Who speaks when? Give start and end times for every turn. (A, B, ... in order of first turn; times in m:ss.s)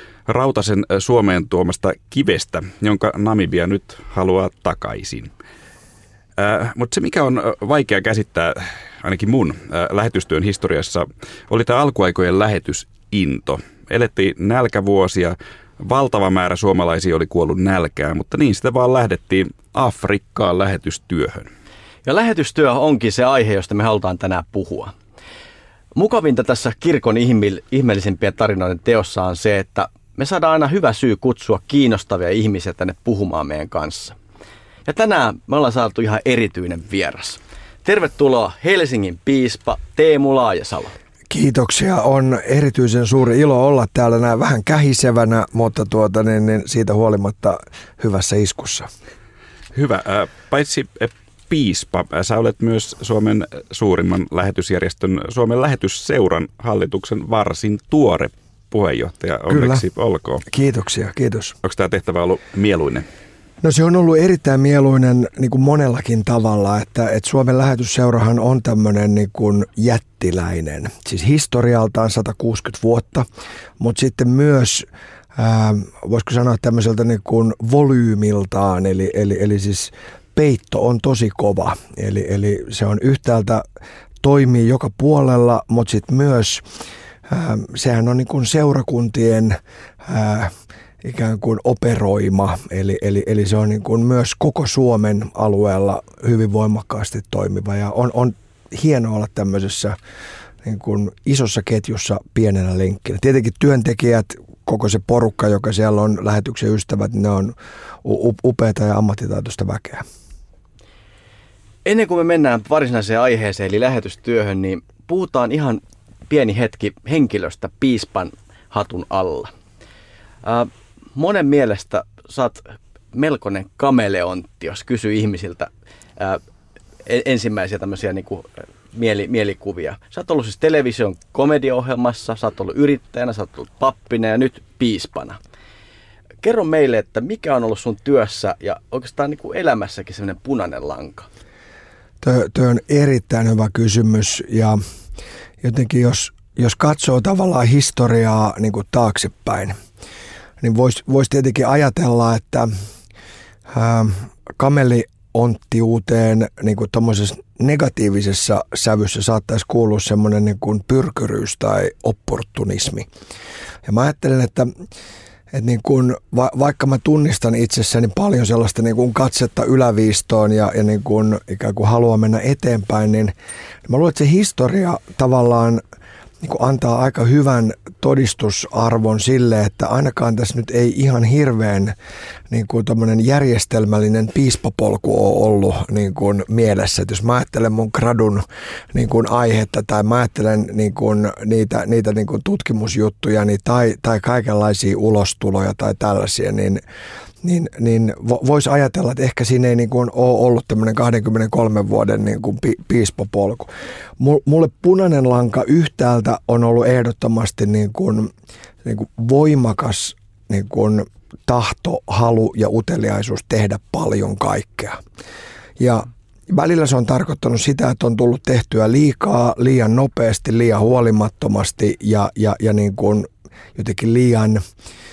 0:00.2-0:05.3 A
0:06.4-0:21.5 A
0:22.0-0:24.9 B
0:25.9-0:34.2 B
0:34.8-0:40.9 B
0:41.3-0:48.9 C
0:49.7-1:00.4 A
0:59.5-0:59.8 C
1:00.4-1:01.6 C
1:01.6-1:03.0 A
1:03.6-1:13.2 C
1:13.8-1:23.6 C
1:24.2-1:26.6 C
1:27.3-1:40.0 C
1:40.6-1:50.0 C
1:51.8-1:59.5 B
2:00.4-2:06.4 B
2:07.0-2:15.4 B
2:16.4-2:21.3 B
2:22.2-2:24.8 C
2:25.6-2:29.8 C
2:30.6-2:32.7 C
2:33.7-2:43.1 C
2:43.8-2:44.7 C
2:45.5-2:53.3 C
2:53.8-2:55.8 C
2:56.4-3:01.9 C
3:02.5-3:16.8 C
3:17.4-3:28.3 C
3:28.8-3:35.0 C
3:35.8-3:44.6 C